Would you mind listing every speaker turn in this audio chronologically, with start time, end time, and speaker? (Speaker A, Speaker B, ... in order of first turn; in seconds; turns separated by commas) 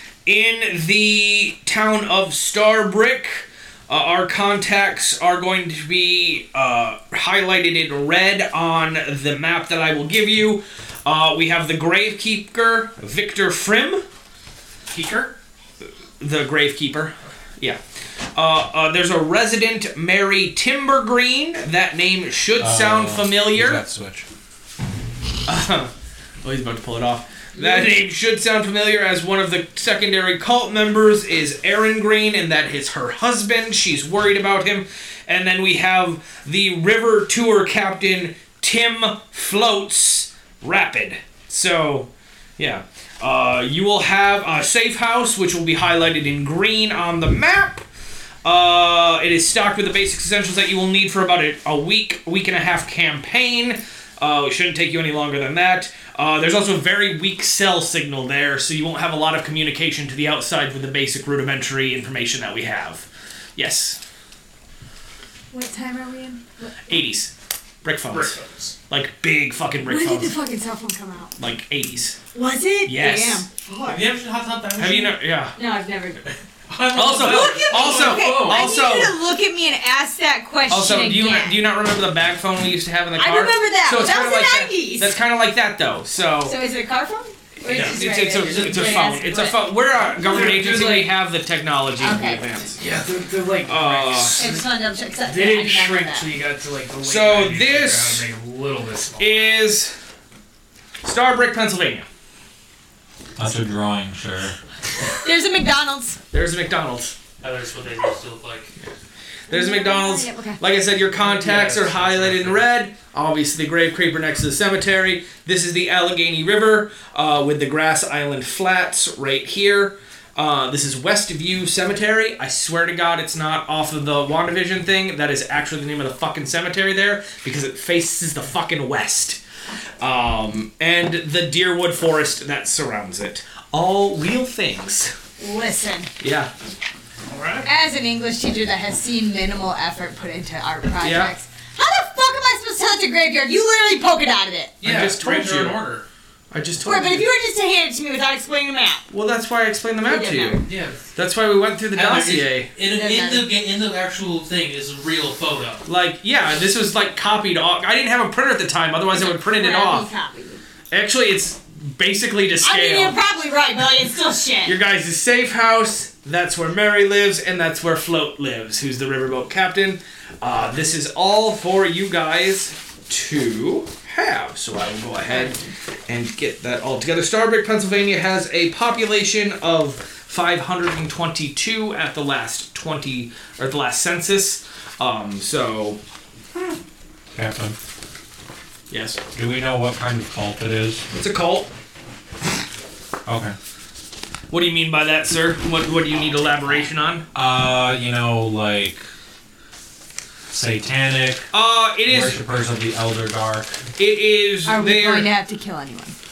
Speaker A: 0.2-14.0, Speaker B: 14.9-15.3, Speaker A: 16.2-17.8, Speaker A: 18.3-23.8, Speaker C: 22.6-24.2, Speaker A: 25.5-25.9, Speaker A: 26.4-47.8, Speaker A: 48.4-64.0, Speaker D: 65.5-66.7, Speaker A: 66.9-67.3, Speaker A: 67.8-68.3, Speaker B: 68.1-68.7, Speaker A: 68.9-70.3, Speaker D: 69.8-71.3, Speaker A: 71.4-72.2, Speaker D: 72.3-74.0, Speaker A: 72.8-73.5, Speaker B: 73.8-75.2, Speaker A: 74.8-75.5, Speaker D: 75.5-76.3, Speaker B: 76.7-78.6, Speaker A: 76.9-79.2, Speaker D: 77.0-81.6, Speaker A: 80.7-86.5, Speaker D: 83.2-85.1, Speaker D: 86.4-89.6, Speaker A: 87.6-92.8, Speaker B: 87.7-89.2, Speaker E: 90.0-91.1, Speaker D: 92.0-92.4, Speaker E: 92.8-94.7, Speaker A: 93.7-94.4, Speaker D: 94.4-96.3, Speaker E: 95.2-99.5, Speaker A: 97.0-98.2, Speaker A: 99.2-99.9, Speaker A: 101.0-102.0, Speaker C: 103.3-104.5, Speaker D: 105.2-106.2, Speaker A: 106.3-107.1, Speaker B: 107.4-108.7, Speaker D: 109.5-110.6, Speaker A: 109.5-129.4, Speaker E: 111.3-111.7, Speaker B: 111.3-112.6, Speaker A: 130.0-135.1, Speaker D: 135.4-136.1, Speaker A: 136.2-136.5, Speaker B: 137.3-137.7, Speaker D: 137.6-144.7, Speaker A: 141.0-141.3, Speaker B: 144.8-146.0, Speaker A: 144.8-145.8, Speaker A: 146.5-147.3, Speaker D: 146.8-149.0, Speaker A: 149.1-150.6, Speaker D: 150.0-150.6, Speaker B: 150.6-151.0, Speaker A: 151.1-152.7, Speaker B: 151.9-155.8, Speaker D: 152.8-153.5, Speaker A: 155.8-160.1, Speaker D: 159.1-160.6, Speaker A: 160.9-163.2, Speaker D: 162.6-164.8, Speaker A: 164.6-186.0, Speaker D: 175.3-175.6, Speaker C: 187.3-187.8, Speaker A: 188.9-189.2, Speaker C: 189.3-191.0, Speaker A: 191.1-191.7, Speaker C: 193.2-193.5, Speaker A: 194.5-197.2, Speaker C: 197.3-199.1, Speaker C: 200.5-201.5, Speaker A: 201.5-202.4, Speaker C: 202.1-203.8, Speaker A: 204.0-205.3, Speaker D: 204.7-206.1